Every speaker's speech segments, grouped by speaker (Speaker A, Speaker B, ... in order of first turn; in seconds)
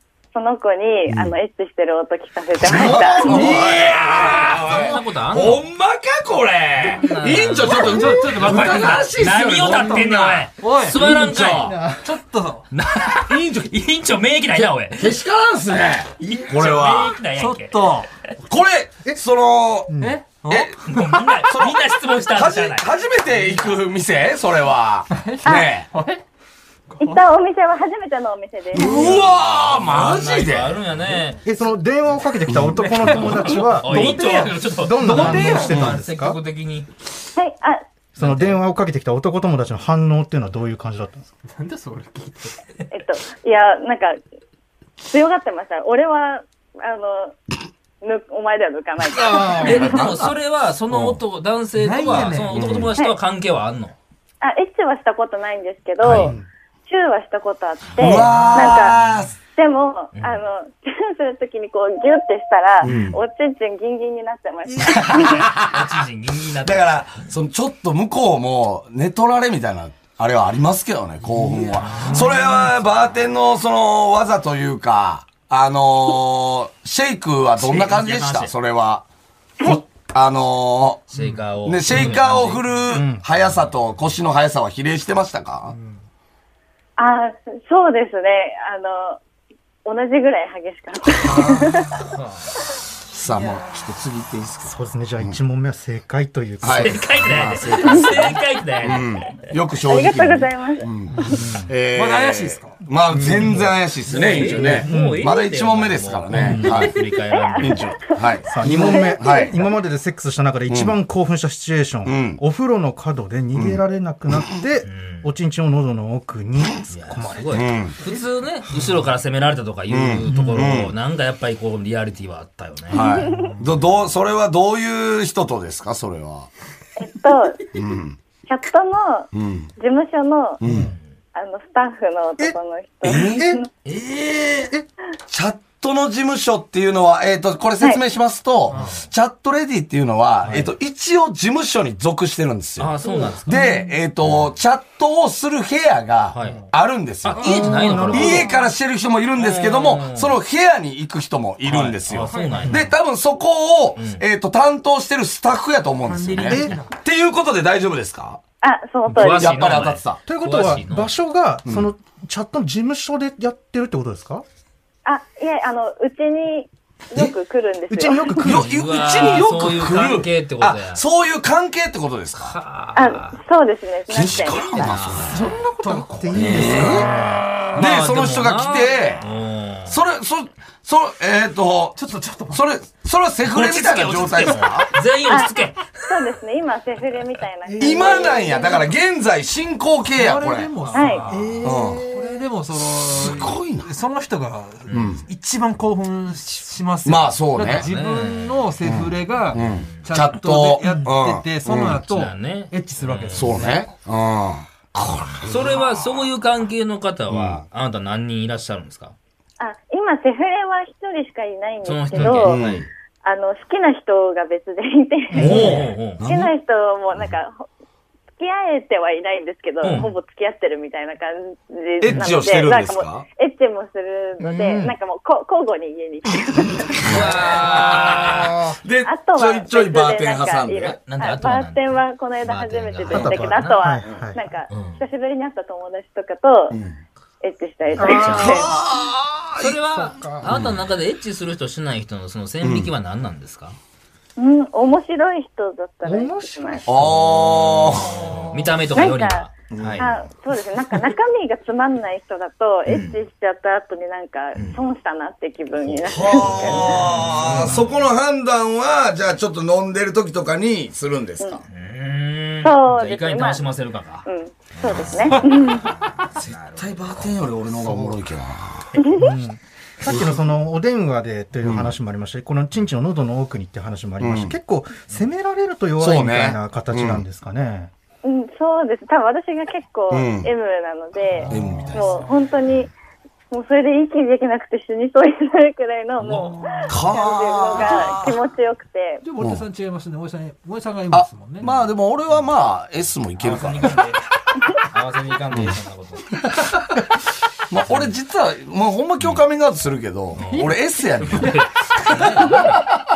Speaker A: 0.3-3.5, 25.4-25.7, 27.0-29.2, 37.4-37.8, 42.9-44.2, 45.0-47.4, 48.0-50.0, 54.4-56.3, 56.9-59.0, 59.5-65.5, 87.0-89.2, 89.8-92.0, 99.9-100.9, 107.3-107.8, 108.7-109.5, 127.0-127.7, 128.5-130.6, 131.3-133.7, 158.6-159.9, 165.1-168.4, 172.9-174.9, 185.2-188.8, 190.9-191.3, 209.6-212.6, 213.2-217.7, 218.4-227.3, 229.0-236.8, 237.4-238.7, 244.4-246.9, 248.9-257.0, 262.6-263.6, 264.2-265.9, 269.0-269.2, 278.2-282.9, 283.5-289.2
Speaker B: 2.6-11.8, 13.3-13.7, 14.6-17.2, 18.4-19.9, 20.5-20.8, 21.5-25.9, 28.7-30.8, 32.5-32.8, 35.7-36.0, 49.1-50.3, 50.9-51.2, 52.0-52.9, 56.1-56.3, 58.0-59.3, 62.8-63.2, 65.0-65.9, 66.6-79.0, 79.6-81.1, 81.6-85.7, 91.2-92.0, 93.0-95.4, 96.6-107.0, 107.6-109.6, 110.7-110.9, 112.0-112.4, 113.5-113.8, 117.5-118.0, 119.9-120.9, 122.9-126.5, 127.7-128.2, 129.3-129.7, 130.6-130.9, 133.0-133.5, 135.3-142.9, 143.4-158.4, 159.2-160.2, 168.4-172.6, 174.1-175.4, 176.3-177.1, 177.7-179.2, 179.9-184.9, 187.8-190.7, 191.6-192.0, 193.1-193.9, 194.9-195.2, 197.0-197.9, 198.8-202.0, 203.3-206.0, 207.3-207.6, 212.2-212.9, 215.4-216.5, 222.0-223.3, 227.0-231.0, 236.7-237.0, 238.2-239.7, 240.4-240.8, 242.6-242.9, 246.8-248.5, 249.7-250.2, 256.0-261.6, 266.7-269.0, 271.6-271.9, 274.2-274.5, 276.0-277.2, 280.1-280.5, 281.5-282.2, 286.9-288.4, 289.4-289.6, 291.1-294.0, 295.5-295.8, 297.7-301.6, 302.7-303.0
Speaker C: 3.0-4.0, 7.7-9.9, 10.6-11.0, 11.8-12.7, 16.2-16.5, 17.3-18.1, 20.0-21.5, 25.1-26.2, 26.9-27.2, 32.8-35.8, 41.4-42.6, 51.8-52.8, 58.1-58.7, 85.7-86.0, 101.9-102.8, 104.1-104.8, 138.7-139.1, 146.4-146.7, 147.5-148.0, 152.2-152.9, 156.0-157.0, 175.3-176.9, 181.9-182.6, 190.1-203.8, 281.4-282.2, 286.3-286.9, 289.2-291.8, 301.3-302.5
Speaker D: 3.3-5.7, 6.8-11.7, 12.7-15.2, 16.2-18.1, 20.9-22.9, 28.9-31.4, 33.1-36.9, 38.2-38.6, 49.6-53.9, 58.2-59.2, 60.1-60.4, 65.0-67.3, 71.9-72.5, 77.6-78.5, 81.1-83.7, 92.1-92.6, 96.7-99.0, 104.1-107.9, 114.8-115.3, 116.9-123.0, 133.8-134.7, 142.8-143.6, 146.3-146.7, 147.2-148.6, 149.3-150.4, 151.6-152.9, 153.9-154.2, 159.1-161.1, 168.4-171.0, 172.4-173.4, 174.2-175.3, 176.3-180.0, 183.4-185.9, 190.8-191.4, 194.9-195.2, 197.6-198.7, 199.6-199.9, 202.1-203.8, 205.4-209.1, 211.8-212.9, 215.3-216.2, 219.8-220.1, 227.0-228.6, 231.1-233.8, 234.7-235.0, 238.0-238.6, 239.6-243.8, 247.0-250.1, 256.2-258.1, 261.7-267.4, 286.2-286.5, 293.4-294.2, 294.8-296.4, 297.9-298.1, 300.3-302.8
Speaker E: 8.0-8.4, 11.6-12.1, 19.9-20.2, 31.4-36.4, 38.1-41.3, 49.3-50.0, 56.0-56.4, 82.9-83.2, 94.6-97.3, 101.2-101.7, 103.1-103.8, 104.6-105.2, 106.3-106.8, 108.5-117.7, 120.3-120.7, 132.4-133.6, 143.5-143.8, 147.4-148.6, 156.4-156.7, 160.2-164.4, 167.9-168.8, 175.3-177.5, 187.7-188.7, 191.3-192.5, 215.3-215.8, 224.4-224.9, 228.2-228.8, 233.1-234.4, 238.0-238.8, 239.6-240.6, 246.0-247.2, 267.8-268.1, 269.1-277.9